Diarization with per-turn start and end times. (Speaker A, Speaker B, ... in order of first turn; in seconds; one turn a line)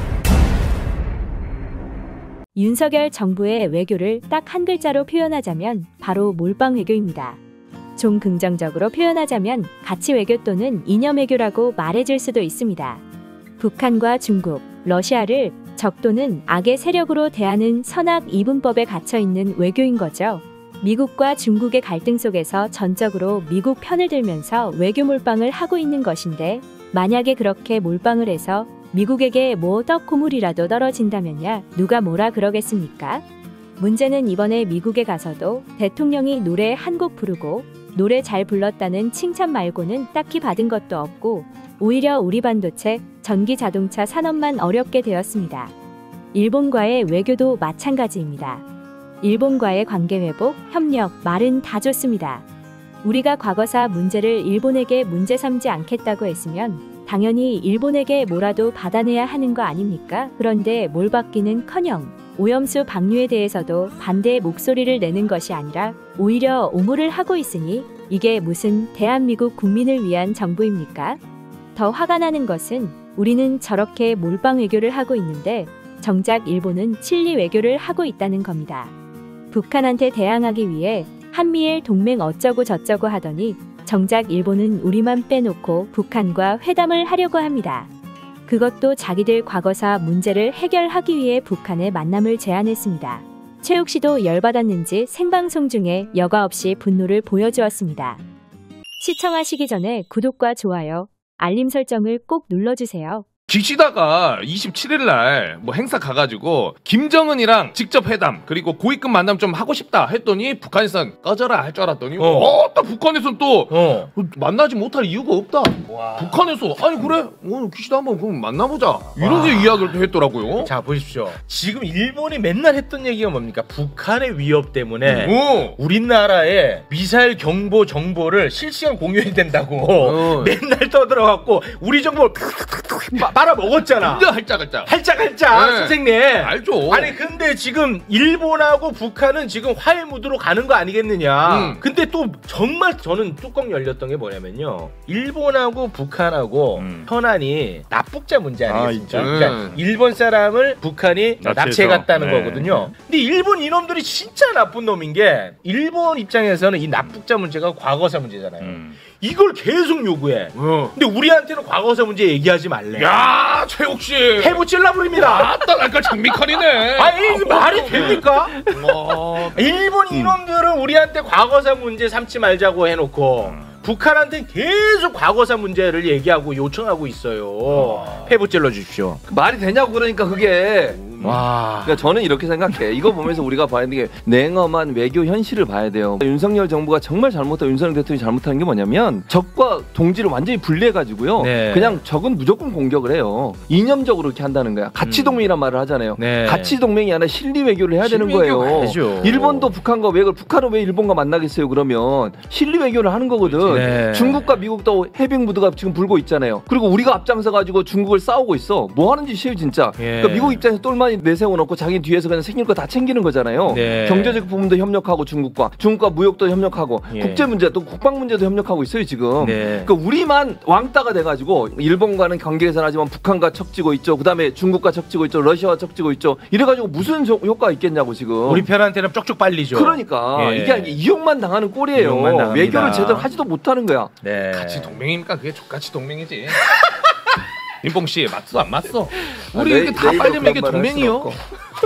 Speaker A: 2.5-7.4
Speaker A: 8.0-13.0
Speaker A: 13.6-33.2
Speaker A: 33.8-45.7
Speaker A: 46.3-48.6
Speaker A: 49.2-52.4
Speaker A: 53.0-71.2
Speaker A: 71.8-78.9
Speaker A: 79.5-87.9
Speaker A: 88.5-98.2
Speaker A: 99.0-103.3
Speaker B: 103.5-120.7
Speaker C: 112.2-112.6
Speaker C: 113.7-114.1
Speaker C: 119.2-119.8
Speaker C: 120.6-134.3
Speaker B: 125.0-125.8
Speaker B: 130.0-130.5
Speaker B: 134.0-134.9
Speaker C: 134.8-163.2
Speaker B: 135.5-137.1
Speaker B: 141.4-141.8
Speaker B: 146.8-147.1
Speaker B: 148.7-149.8
Speaker B: 151.4-152.9
Speaker B: 158.6-159.0
Speaker B: 160.6-160.9
Speaker B: 162.9-164.6
Speaker C: 164.4-165.5
Speaker B: 165.1-169.7
Speaker C: 166.9-168.6
Speaker C: 169.4-179.2
Speaker B: 173.4-173.7
Speaker B: 177.7-178.2
Speaker D: 179.3-181.2
Speaker B: 181.0-181.4
Speaker C: 181.2-182.0
Speaker D: 181.8-228.7
Speaker C: 191.4-192.0
Speaker C: 195.0-195.5
Speaker C: 196.2-196.8
Speaker C: 198.0-199.7
Speaker B: 203.4-204.0
Speaker C: 203.7-204.4
Speaker C: 210.0-210.6
Speaker C: 213.7-214.4
Speaker C: 217.1-217.5
Speaker C: 219.4-219.9
Speaker C: 228.5-231.0
Speaker D: 229.7-234.1
Speaker C: 231.9-233.3
Speaker B: 232.7-233.2
Speaker C: 234.2-235.0
Speaker B: 234.5-236.6
Speaker B: 237.8-241.4
Speaker D: 239.5-241.4